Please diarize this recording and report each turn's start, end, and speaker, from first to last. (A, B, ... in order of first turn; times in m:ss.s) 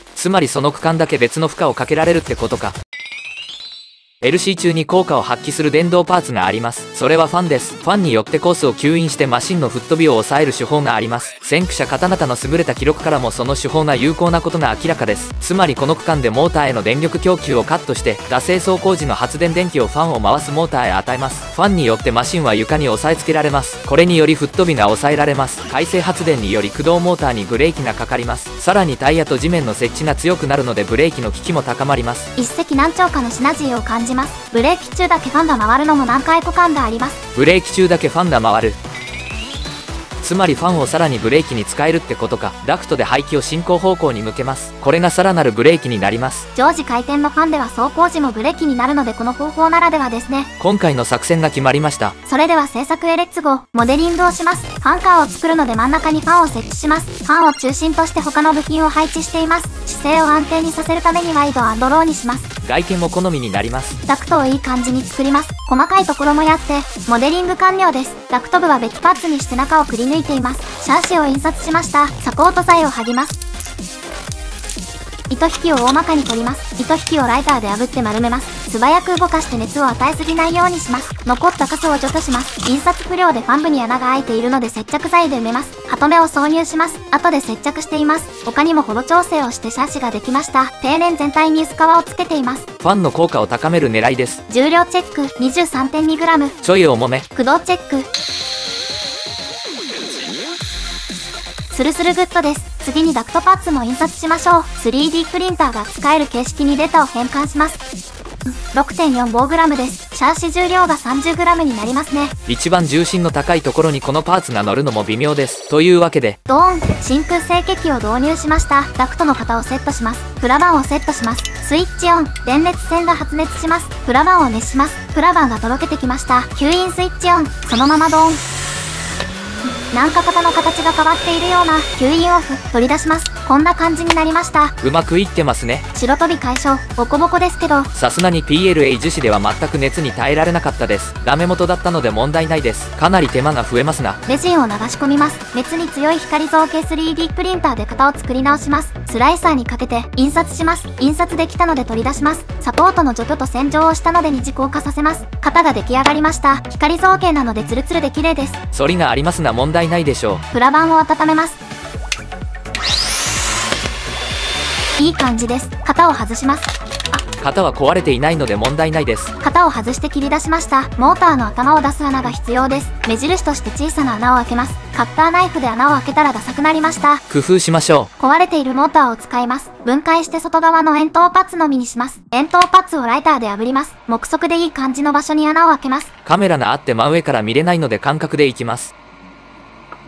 0:00.2-0:02.8 A
0:04.2-0:32.3 A
0:32.4-0:37.2 B
0:37.4-0:38.8 A
0:40.2-0:46.5 A
0:46.6-0:50.5 B
0:50.6-0:52.2 A
0:52.3-1:02.5 B
1:02.6-1:04.0 A
1:04.1-1:13.4 B
1:15.3-1:32.7 B
1:32.8-1:34.4 A
1:34.5-1:36.6 B
1:36.6-1:37.3 A
1:37.4-1:38.1 B
1:41.7-1:47.8 B
1:48.7-1:52.4 B
1:52.5-1:56.4 A
1:56.5-2:08.4 B
2:09.9-2:14.8 B
2:14.8-2:15.9 A
2:16.0-2:17.9 B
2:18.0-2:24.2 A
2:24.3-2:38.6 B
2:38.7-2:40.4 A
2:40.5-2:41.6 B
2:45.0-2:46.7 B
2:47.4-2:49.3 A
2:49.4-2:57.2 B
2:57.3-2:58.1 A
2:58.2-3:06.1 B
3:06.2-3:08.9 A